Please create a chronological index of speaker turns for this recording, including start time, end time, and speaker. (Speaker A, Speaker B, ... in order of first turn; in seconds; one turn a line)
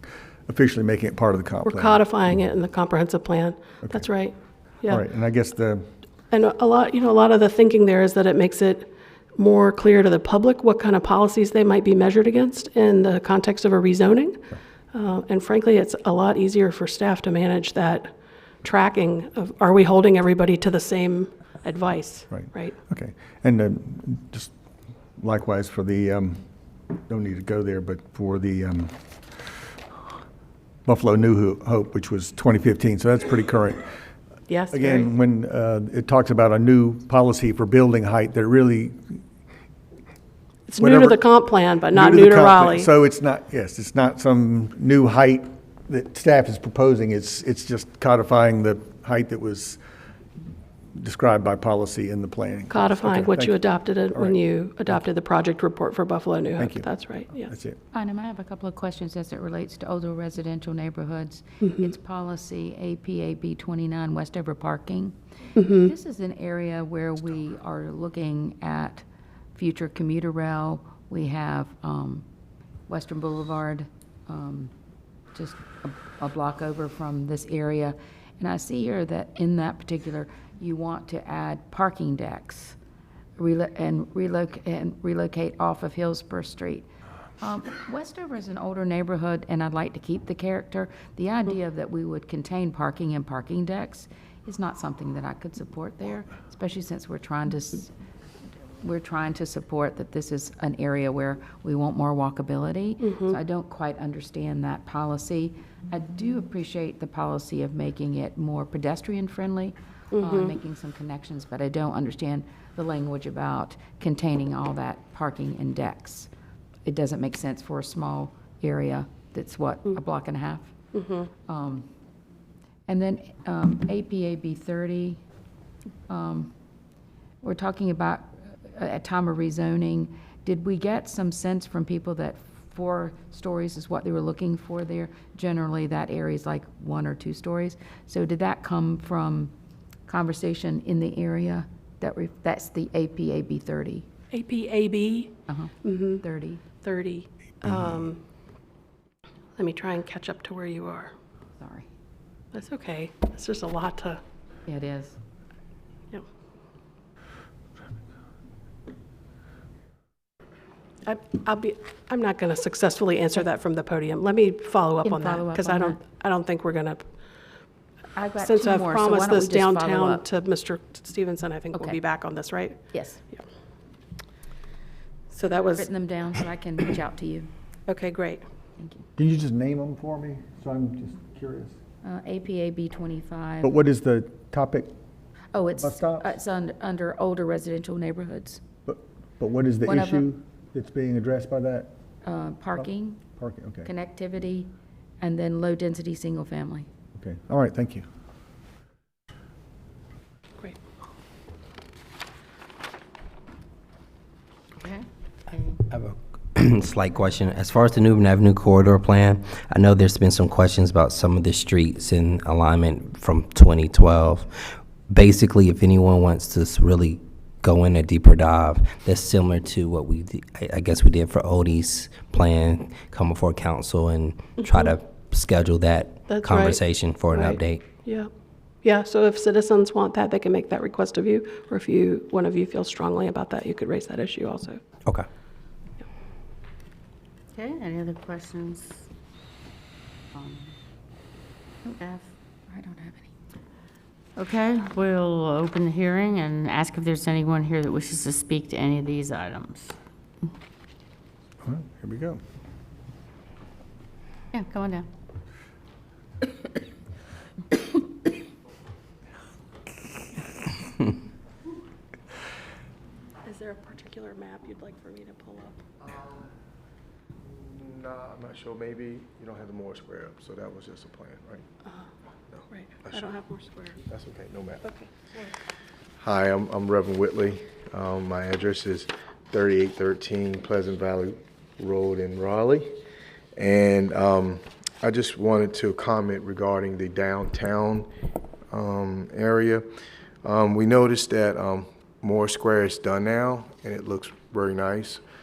Speaker A: 0.5-2.0
Speaker B: 1.6-5.0
Speaker A: 4.9-5.9
Speaker B: 6.3-22.7
Speaker A: 22.3-24.5
Speaker A: 25.2-26.4
Speaker A: 27.0-29.8
Speaker A: 30.8-33.8
Speaker B: 34.5-35.1
Speaker A: 34.7-39.2
Speaker B: 40.7-42.9
Speaker A: 40.8-41.2
Speaker A: 41.9-49.8
Speaker A: 51.0-53.5
Speaker B: 52.7-57.5
Speaker A: 56.6-57.8
Speaker C: 57.9-69.0
Speaker B: 65.6-65.9
Speaker C: 69.5-72.2
Speaker C: 72.9-74.7
Speaker C: 75.3-82.8
Speaker C: 83.4-86.9
Speaker C: 87.4-97.9
Speaker C: 98.8-116.3
Speaker B: 103.0-103.4
Speaker B: 110.2-110.5
Speaker C: 116.8-120.7
Speaker B: 120.9-121.3
Speaker C: 121.4-121.8
Speaker C: 122.9-125.2
Speaker C: 126.1-126.5
Speaker C: 127.4-139.5
Speaker C: 140.1-144.1
Speaker B: 144.3-145.3
Speaker C: 145.5-146.6
Speaker B: 145.8-146.2
Speaker B: 146.8-148.2
Speaker B: 149.6-151.1
Speaker C: 151.6-151.9
Speaker B: 152.5-154.2
Speaker C: 154.7-155.2
Speaker B: 161.0-167.1
Speaker C: 165.0-166.0
Speaker C: 168.1-170.2
Speaker B: 168.4-172.8
Speaker C: 172.9-173.2
Speaker B: 175.3-175.9
Speaker C: 175.7-177.5
Speaker B: 177.9-178.4
Speaker C: 178.8-179.0
Speaker A: 179.2-181.8
Speaker C: 182.0-183.7
Speaker A: 183.6-184.9
Speaker C: 185.5-188.6
Speaker A: 185.8-186.3
Speaker A: 188.8-191.9
Speaker C: 189.8-190.3
Speaker C: 192.2-193.2
Speaker A: 192.8-193.9
Speaker C: 193.8-196.9
Speaker A: 197.2-198.0
Speaker D: 204.8-205.8
Speaker E: 205.9-227.8
Speaker B: 224.6-224.9
Speaker B: 226.3-228.3
Speaker B: 228.8-234.8
Speaker D: 237.5-239.1
Speaker D: 240.4-240.7
Speaker D: 241.8-242.3
Speaker C: 242.7-243.3
Speaker D: 244.3-249.9
Speaker A: 251.6-252.4
Speaker D: 254.5-255.1
Speaker B: 263.4-265.8
Speaker F: 266.2-266.4
Speaker F: 267.5-271.6
Speaker F: 272.5-273.2
Speaker B: 272.7-274.0
Speaker F: 274.0-274.9
Speaker B: 274.8-275.1
Speaker F: 276.2-282.9
Speaker F: 283.6-288.1
Speaker F: 288.7-289.9
Speaker F: 290.4-295.2